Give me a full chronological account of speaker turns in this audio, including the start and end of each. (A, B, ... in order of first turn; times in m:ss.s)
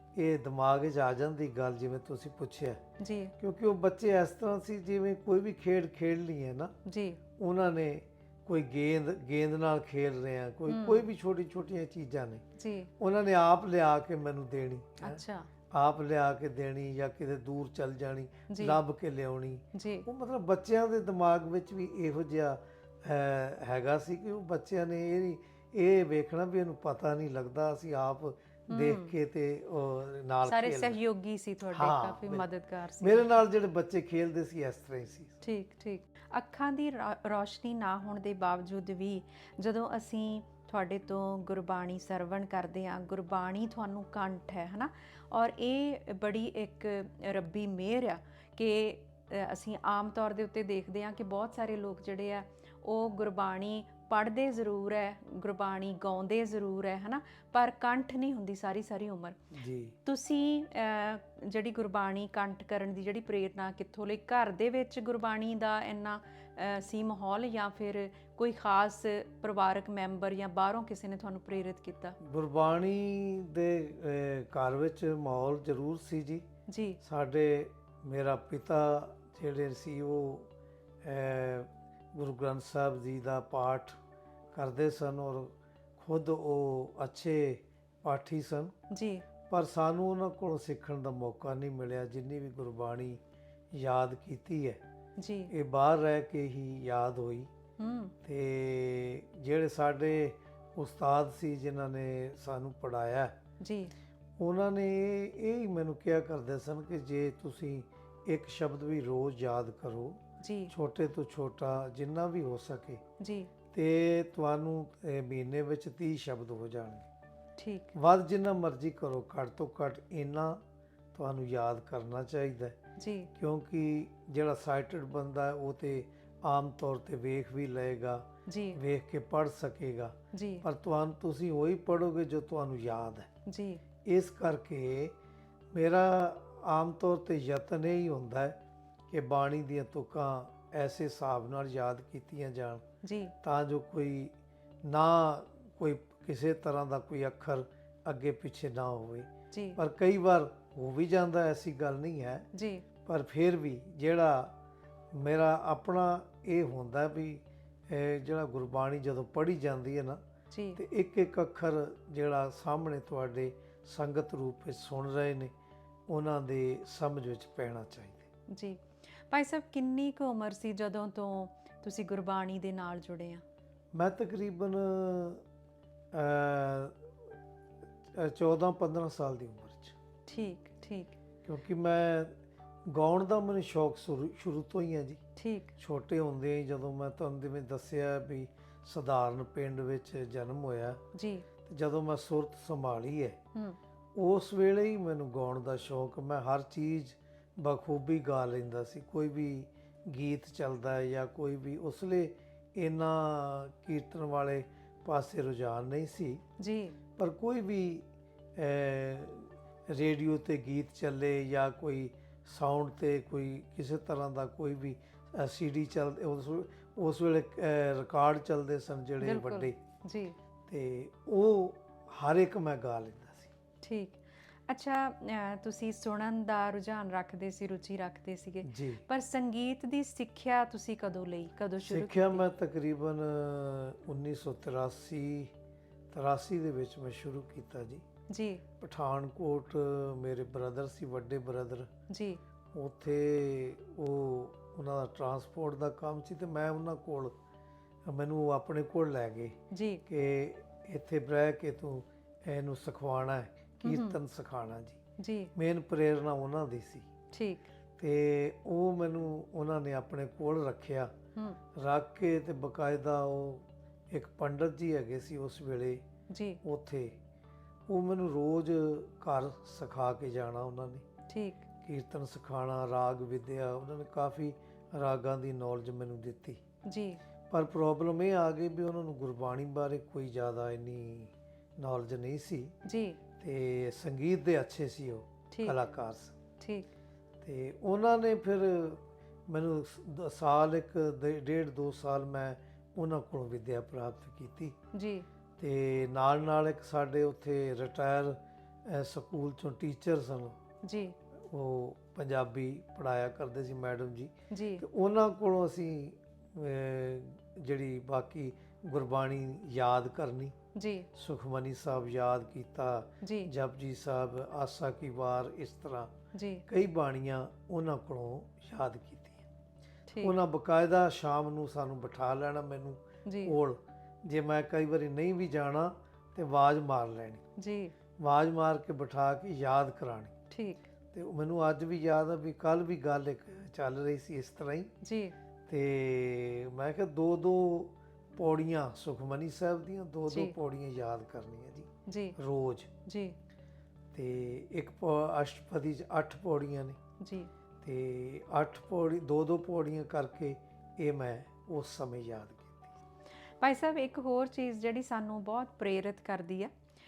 0:00.1-0:02.8 A
0:03.0-0:03.3 B
0:03.4-0:06.7 A
0:06.8-0:07.2 B
0:07.4-0:12.4 A
0:10.7-0:11.0 B
0:12.6-0:12.9 B
0:13.0-0:31.0 A
0:15.0-0:15.5 B
0:18.5-0:18.8 B
0:19.7-0:20.0 B
0:28.7-0:29.1 B
0:30.4-0:33.3 B
0:31.7-0:32.4 A
0:33.0-0:35.4 A
0:35.4-0:59.4 B
0:59.5-1:00.0 A
1:00.0-1:12.2 B
1:12.2-1:16.4 A
1:16.7-1:17.0 B
1:17.0-1:20.5 A
1:21.0-1:24.0 A
1:24.5-1:28.7 A
1:28.9-1:29.2 B
1:29.5-1:33.2 A
1:33.7-1:34.8 A
1:35.2-1:35.5 B
1:35.5-1:37.5 A
1:37.8-1:38.1 B
1:38.2-1:43.3 A
1:43.6-1:43.9 B
1:44.4-1:53.0 A
1:50.4-1:50.7 B
1:53.2-1:53.5 B
1:53.7-1:57.1 A
1:57.6-1:57.9 B
1:57.9-2:00.6 A
2:01.1-2:02.8 A
2:03.0-2:03.3 B
2:03.3-2:13.3 A
2:08.5-2:08.8 B
2:10.3-2:10.6 B
2:13.4-2:13.8 B
2:14.0-2:15.1 A
2:15.7-2:18.6 A
2:19.1-2:22.8 A
2:23.0-2:23.3 B
2:23.4-2:32.4 A
2:29.5-2:29.8 B
2:32.5-2:32.8 B
2:33.0-2:34.5 A
2:35.1-2:40.2 A
2:40.5-2:40.8 B
2:40.7-2:45.5 A
2:46.1-2:48.3 A
2:48.5-2:53.4 B
2:53.9-2:55.4 A
2:56.1-2:57.0 A
2:58.1-2:59.9 A
3:00.2-3:01.2 B
3:01.4-3:02.3 A
3:02.8-3:05.2 A
3:05.4-3:05.7 B
3:05.8-3:11.0 A
3:11.1-3:11.4 B
3:11.6-3:13.4 A
3:14.2-3:26.4 A
3:26.6-3:26.9 B
3:27.2-3:39.8 A
3:39.2-3:40.4 B
3:40.7-3:43.5 A
3:43.8-3:52.4 B
3:48.6-3:49.0 A
3:51.8-3:55.5 A
3:56.1-3:58.0 A
3:58.3-3:58.6 B
3:58.8-4:01.9 A
4:02.1-4:02.4 B
4:02.7-4:07.3 A
4:08.0-4:15.0 A
4:09.7-4:10.0 B
4:13.8-4:14.2 B
4:15.2-4:15.5 B
4:15.5-4:17.1 A
4:17.3-4:17.7 B
4:18.0-4:21.1 A
4:21.7-4:26.0 A
4:26.3-4:26.6 B
4:26.6-4:27.2 A
4:27.9-4:31.0 A
4:31.3-4:31.6 B
4:31.8-4:36.6 A
4:36.8-4:37.2 B
4:37.5-4:42.7 A
4:42.8-4:43.2 B
4:43.4-4:46.4 A
4:45.5-4:45.8 B
4:46.6-4:46.9 B
4:47.4-4:54.8 A
4:54.9-4:55.2 B
4:55.6-5:00.6 A
5:00.8-5:01.2 B
5:01.5-5:10.5 A
5:04.5-5:04.8 B
5:10.7-5:11.1 B
5:11.1-5:16.1 A
5:13.2-5:13.5 B
5:16.3-5:16.6 B
5:16.7-5:19.4 A
5:20.1-5:20.3 B
5:20.2-5:27.4 A
5:23.2-5:23.5 B
5:27.6-5:27.9 B
5:28.2-5:30.4 A
5:30.5-5:30.8 B
5:31.1-5:34.9 A
5:35.0-5:35.3 B
5:35.7-5:42.9 A
5:40.3-5:40.6 B
5:42.0-5:42.4 B
5:43.0-5:43.4 B
5:44.1-5:47.0 A
5:47.2-5:47.5 B
5:47.8-5:52.9 A
5:53.6-5:56.7 B